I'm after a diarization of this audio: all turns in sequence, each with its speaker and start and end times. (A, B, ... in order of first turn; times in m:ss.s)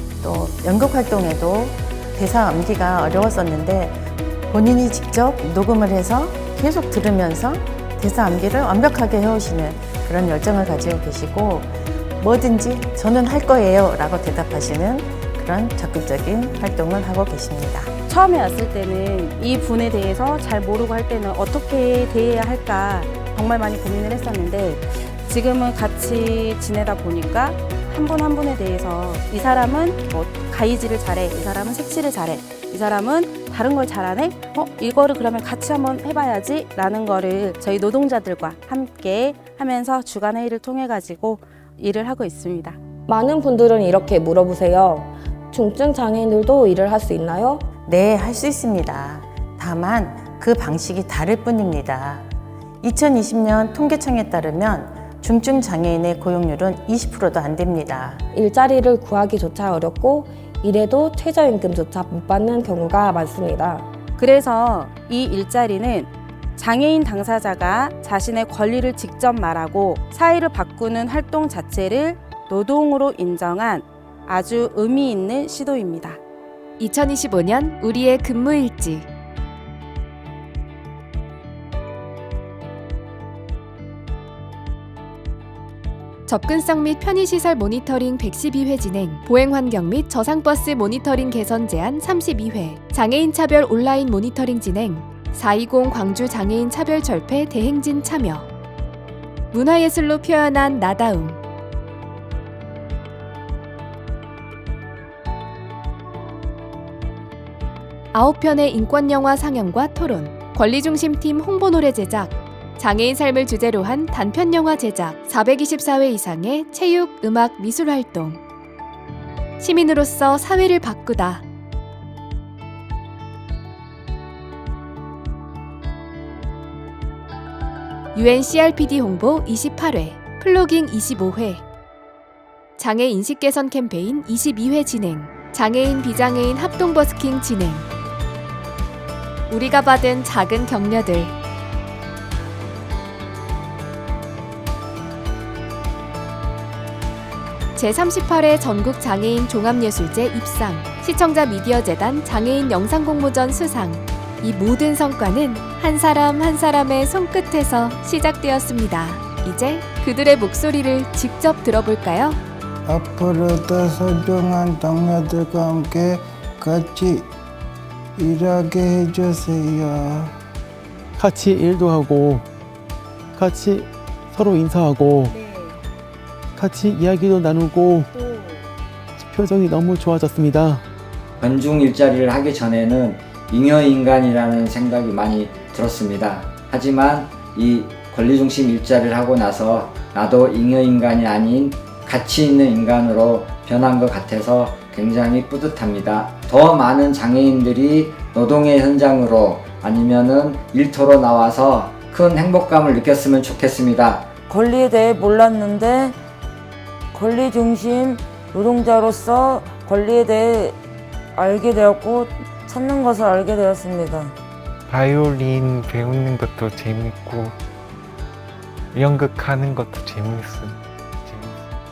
0:00.2-0:17.9 A
0:18.1-0:42.8 B
0:43.1-0:47.7 C
0:47.8-0:52.3 A
0:52.8-0:58.2 A
0:58.3-1:03.8 C
1:04.2-1:16.2 B
1:16.8-1:19.1 D
1:26.2-1:38.5 D
1:39.5-1:41.4 D
1:48.1-1:58.4 D
1:59.6-2:01.4 D
2:08.1-2:11.6 D
2:12.8-2:17.9 D
2:19.5-2:21.3 D
2:27.8-2:42.4 D
2:42.9-2:47.3 E
2:48.2-2:50.3 E
2:51.2-2:52.5 F
2:53.3-2:55.4 F
2:56.6-2:58.1 F
2:59.2-3:00.8 F
3:01.4-3:24.3 G
3:24.5-3:26.2 H
3:27.1-3:30.8 H
3:31.3-3:34.3 H
3:34.9-3:37.6 I
3:38.9-3:41.6 I